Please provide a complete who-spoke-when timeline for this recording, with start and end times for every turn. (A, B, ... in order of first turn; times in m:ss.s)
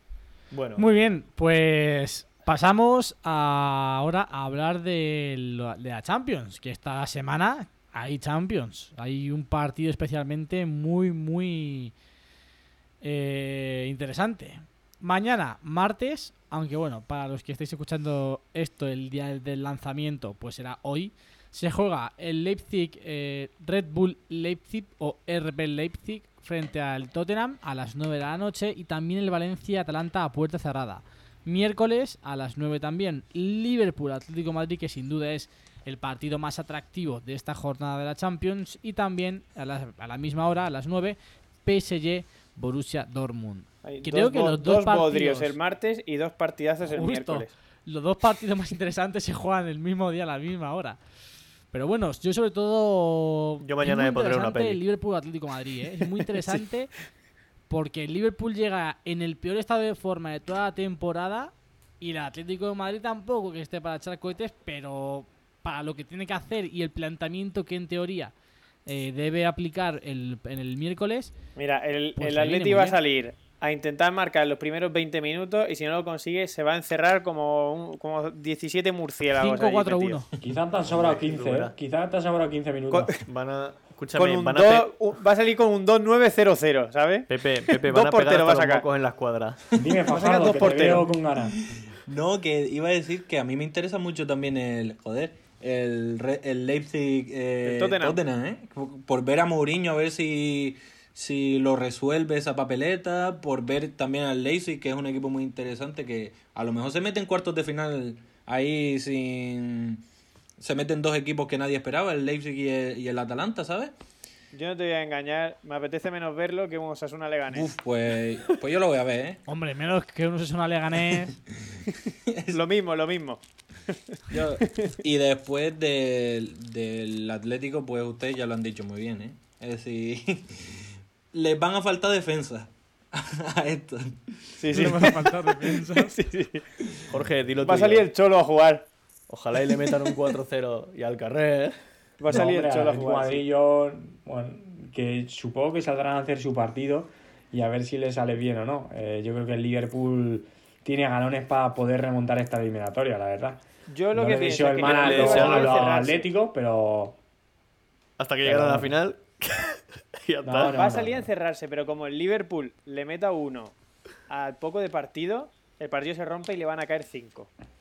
0:00.5-0:00.9 A
0:00.8-0:11.9 B
0:13.0-0:45.6 B
0:43.8-0:47.5 C
0:46.8-0:51.0 B
0:51.7-0:56.9 B
0:53.6-0:54.8 A
0:57.7-1:08.3 B
1:08.9-1:11.3 B
1:11.6-1:20.2 C
1:12.2-1:13.0 B
1:19.4-1:20.3 B
1:20.4-1:23.1 D
1:20.8-1:21.7 A
1:22.9-1:23.2 C
1:23.2-1:24.9 A
1:24.2-1:28.9 C
1:27.3-1:29.6 A
1:29.8-1:31.6 D
1:30.1-1:31.1 C
1:31.5-1:50.0 E
1:37.6-1:38.2 C
1:50.6-1:53.9 E
1:54.5-1:57.7 C
1:57.5-1:59.4 E
1:59.5-2:01.4 B
2:02.3-2:02.6 E
2:02.5-2:04.9 C
2:04.3-2:15.2 E
2:14.6-2:16.7 C
2:14.7-2:16.1 B
2:17.1-2:18.1 A
2:17.6-2:18.9 C
2:19.3-2:21.8 A
2:22.2-2:23.4 C
2:22.3-2:37.2 D
2:33.9-2:36.3 C
2:34.8-2:35.9 A
2:38.2-2:40.8 A
2:38.4-2:38.9 D
2:40.4-2:41.3 D
2:40.7-2:43.8 C
2:44.3-2:47.5 C